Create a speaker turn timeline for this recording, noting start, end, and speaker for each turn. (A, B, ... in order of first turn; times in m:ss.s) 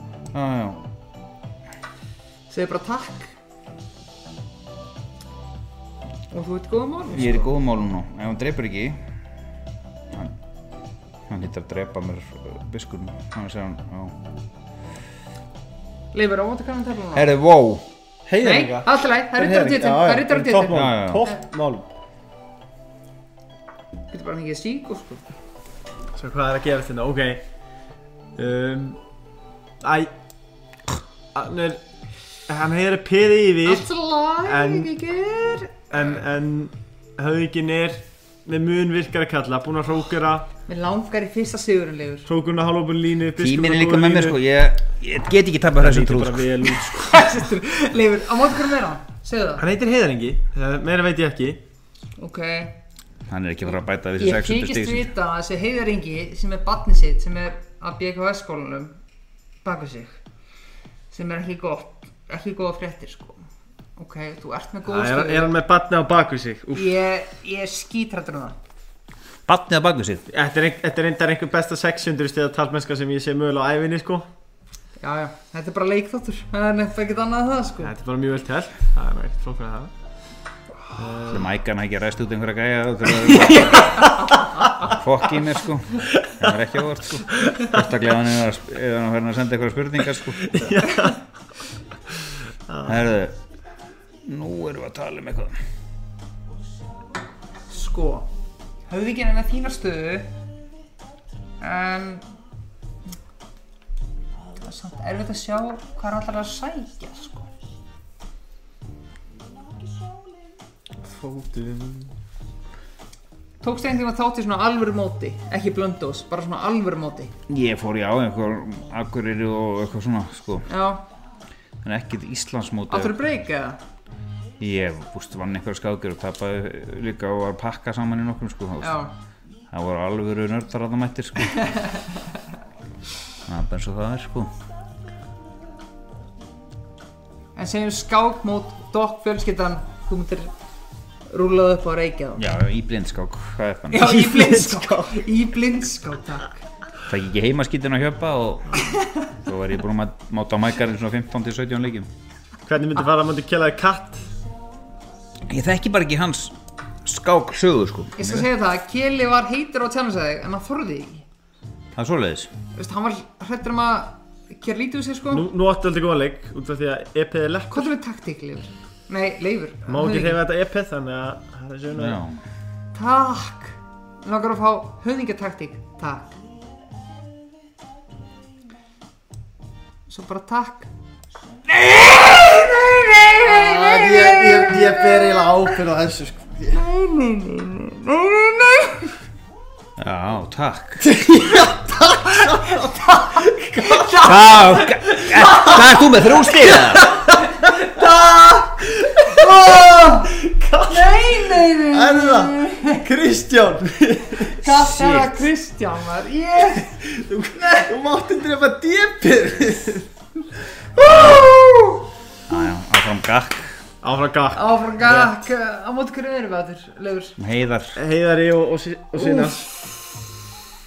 0:00.3-0:00.8 A
0:02.5-0:03.3 B
0:06.3-0:07.5 B
0:07.1-0:09.0 A
0:11.3-0:14.2 A
0:16.1-0:17.3 B
0:17.1-0:17.9 A
0:18.3-0:21.9 C
0:18.4-0:21.4 B
0:20.7-0:21.3 A
0:24.1-0:25.2 B
0:26.2-0:27.4 C
0:28.4-0:29.0 C
0:29.8-0:30.1 C
0:31.3-0:31.8 C
0:32.5-0:33.9 C
0:33.6-0:35.9 B
0:34.5-0:34.9 C
0:35.9-0:40.5 C
0:40.7-0:42.3 B
0:42.3-0:44.4 C
0:43.4-0:46.8 A
0:45.8-0:47.3 C
0:46.8-0:49.6 B
0:49.6-0:51.6 C
0:52.2-0:52.8 B
0:53.3-0:55.1 A
0:54.2-0:59.0 B
0:59.6-1:00.2 B
1:01.1-1:03.4 B
1:04.0-1:05.5 B
1:04.9-1:06.9 C
1:06.7-1:08.6 B
1:09.5-1:10.3 A
1:10.3-1:14.3 C
1:15.0-1:17.9 B
1:17.8-1:19.9 C
1:21.0-1:21.5 C
1:21.3-1:24.1 A
1:23.7-1:24.2 B
1:24.8-1:30.6 A
1:30.4-1:31.2 C
1:32.7-1:33.0 C
1:32.8-1:33.4 A
1:34.2-1:35.5 A
1:37.7-1:38.3 B
1:38.9-1:40.3 B
1:41.6-1:42.2 B
1:44.6-1:47.5 B
1:51.0-1:52.1 C
1:53.6-1:57.3 B
1:57.5-2:00.7 A
2:00.7-2:01.0 B
2:01.8-2:03.2 A
2:02.9-2:03.8 B
2:04.6-2:09.0 A
2:08.8-2:09.1 B
2:09.7-2:11.7 A
2:11.6-2:12.0 B
2:13.4-2:14.5 A
2:17.6-2:20.5 B
2:21.3-2:22.4 B
2:22.4-2:24.1 A
2:23.9-2:26.6 B
2:24.0-2:25.2 C
2:27.1-2:28.8 A
2:28.9-2:29.2 B
2:29.4-2:32.1 A
2:32.7-2:34.3 C
2:35.5-2:38.5 A
2:38.2-2:41.2 B
2:42.0-2:42.5 A
2:42.8-2:45.5 B
2:45.3-2:47.9 C
2:47.7-2:50.4 B
2:49.9-2:52.2 C
2:52.0-2:52.4 A
2:52.9-2:56.4 B
3:00.1-3:00.9 B
3:01.7-3:05.8 B
3:03.4-3:06.8 C
3:06.7-3:09.1 B
3:10.0-3:11.1 A
3:11.0-3:13.0 C
3:12.3-3:15.8 B
3:13.8-3:14.1 C
3:14.2-3:17.1 A
3:17.3-3:23.0 B
3:19.0-3:24.6 C
3:24.4-3:27.0 B
3:24.8-3:25.4 A
3:26.8-3:30.1 C
3:27.5-3:27.9 B
3:31.0-3:32.0 B
3:31.0-3:31.5 C
3:32.5-3:33.8 A
3:34.0-3:35.3 C
3:34.5-3:37.4 B
3:37.4-3:38.0 A
3:38.0-3:39.7 C
3:39.2-3:40.0 B